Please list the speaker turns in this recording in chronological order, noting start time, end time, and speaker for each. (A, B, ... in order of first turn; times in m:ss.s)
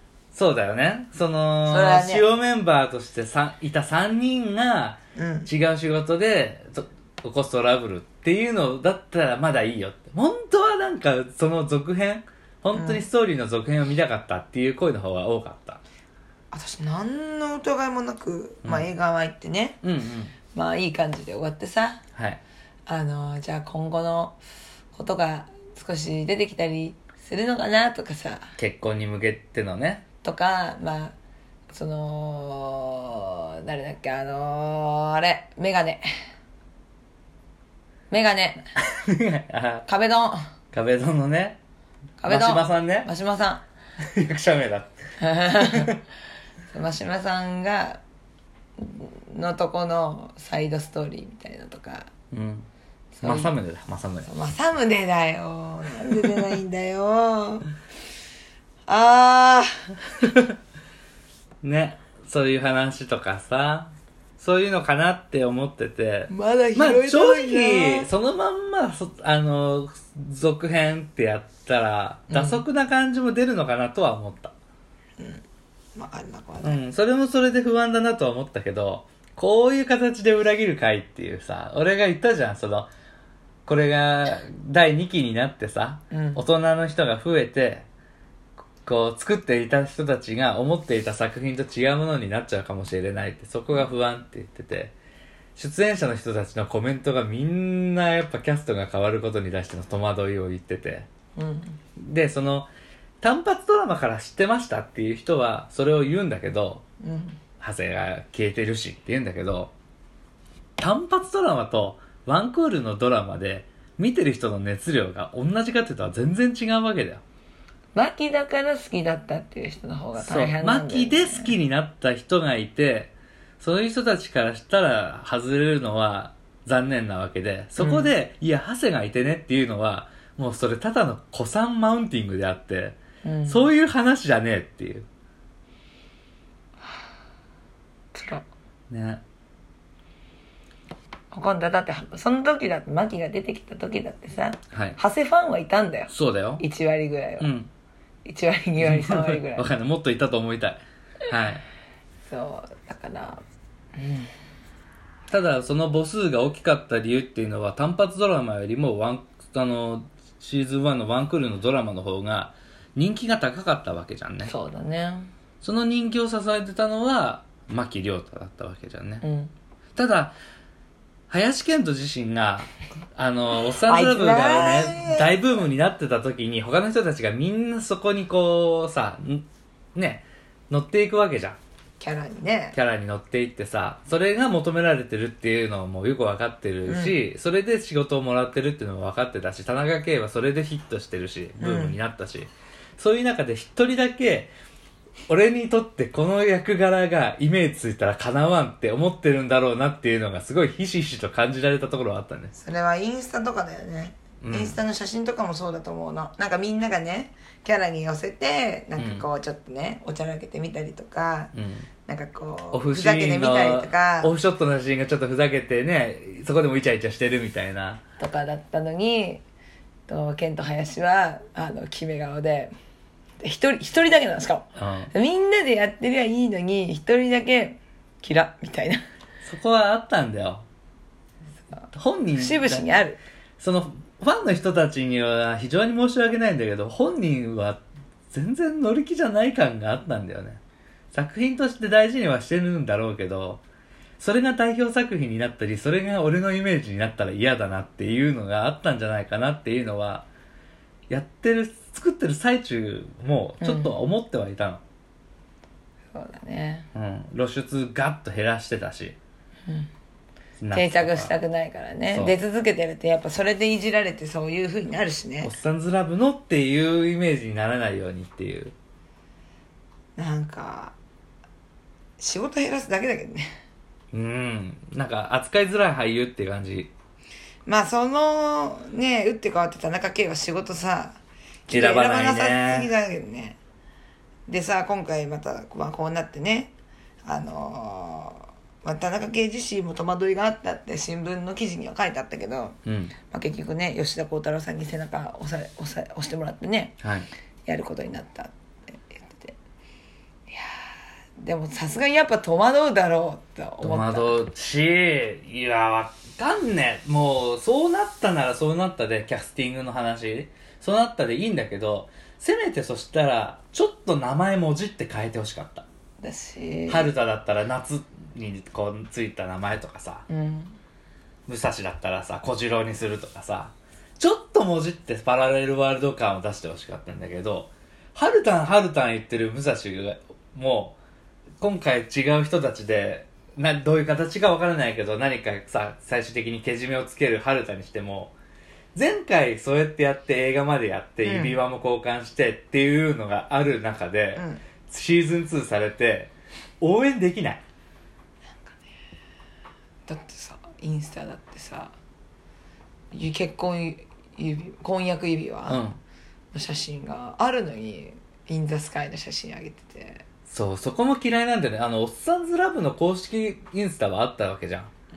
0:00.3-0:15.8 A
0:01.7-0:02.2 B
0:05.1-0:05.5 B
0:12.7-0:13.1 B
0:16.5-0:19.8 B
0:19.8-0:20.3 A
0:20.5-0:22.0 B
0:22.1-0:22.4 A
0:22.9-0:24.4 B
0:24.9-0:28.5 B
0:28.6-0:30.0 A
0:30.2-0:31.1 B
0:31.7-0:36.0 B
0:38.1-0:38.6 B
0:38.8-0:39.8 A
0:39.8-0:40.4 B
0:40.7-0:41.6 A
0:42.2-0:43.6 B
0:42.3-0:43.1 A
0:44.0-0:44.9 A
0:45.2-0:46.0 B
0:45.5-0:46.0 A
0:46.7-0:48.0 B
0:48.8-0:52.1 B
0:52.3-0:52.7 A
0:53.1-0:53.5 B
0:53.2-0:54.3 A
0:54.2-0:57.6 B
0:58.9-1:00.0 B
1:01.6-1:14.5 A
1:06.3-1:08.1 B
1:12.3-1:12.6 B
1:16.0-1:16.8 B
1:16.6-1:22.9 A
1:23.6-1:27.8 A
1:26.1-1:26.4 B
1:28.8-1:34.9 A
1:35.6-1:41.1 A
1:41.4-1:41.8 B
1:42.0-1:42.7 A
1:43.2-1:46.8 A
1:47.0-1:47.4 B
1:47.6-1:49.7 A
1:50.8-1:57.2 A
1:57.9-2:01.5 B
2:00.2-2:15.1 A
2:07.8-2:08.1 B
2:13.2-2:13.7 B
2:18.1-2:18.4 B
2:18.9-2:19.2 A
2:21.3-2:27.5 B
2:24.7-2:25.0 A
2:26.1-2:26.6 A
2:27.4-2:27.7 A
2:28.2-2:29.7 B
2:28.8-2:31.6 A
2:32.3-2:33.4 B
2:34.0-2:34.3 B
2:35.3-2:44.5 A
2:44.4-2:45.3 B
2:45.6-2:49.2 A
2:49.2-2:49.5 B
2:50.0-2:50.3 A
2:51.3-3:01.6 A
2:53.8-2:55.3 B
3:02.0-3:02.8 B
3:02.7-3:14.5 A
3:06.8-3:07.2 B
3:11.6-3:12.0 B
3:15.3-3:22.5 A
3:22.5-3:31.5 B
3:24.4-3:24.8 A
3:29.0-3:29.2 A
3:31.5-3:31.9 A
3:32.0-3:34.3 B
3:32.7-3:38.0 A
3:38.2-3:39.4 B
3:40.1-3:42.7 B
3:43.4-3:49.0 B
3:44.8-3:45.1 A
3:49.4-3:50.6 A
3:51.9-3:52.9 A
3:52.4-3:53.2 B
3:53.6-4:00.6 A
4:01.1-4:03.6 A
4:04.2-4:10.2 A
4:11.1-4:14.8 A
4:13.6-4:14.0 B
4:16.1-4:16.9 B
4:16.9-4:19.2 A
4:20.6-4:21.3 A
4:20.7-4:25.5 B
4:25.4-4:28.7 A
4:30.2-4:31.0 B
4:32.2-4:33.5 B
4:34.1-4:36.9 A
4:37.6-4:43.6 B
4:41.7-4:42.9 A
4:44.5-4:46.7 B
4:47.2-4:52.8 B
4:52.8-4:53.1 A
4:53.3-4:57.0 B
4:57.0-4:57.3 A
4:57.6-4:59.5 B
5:00.5-5:04.4 B
5:03.8-5:15.8 A
5:16.2-5:17.1 B
5:16.9-5:20.2 A
5:20.3-5:20.8 B
5:21.5-5:31.0 A
5:31.6-5:38.3 A
5:38.9-5:47.6 A
5:41.2-5:41.6 B
5:44.3-5:44.6 B
5:50.1-5:51.9 B
5:53.1-5:55.8 B
5:55.7-5:56.0 A
5:56.5-6:00.2 B
6:00.5-6:04.9 A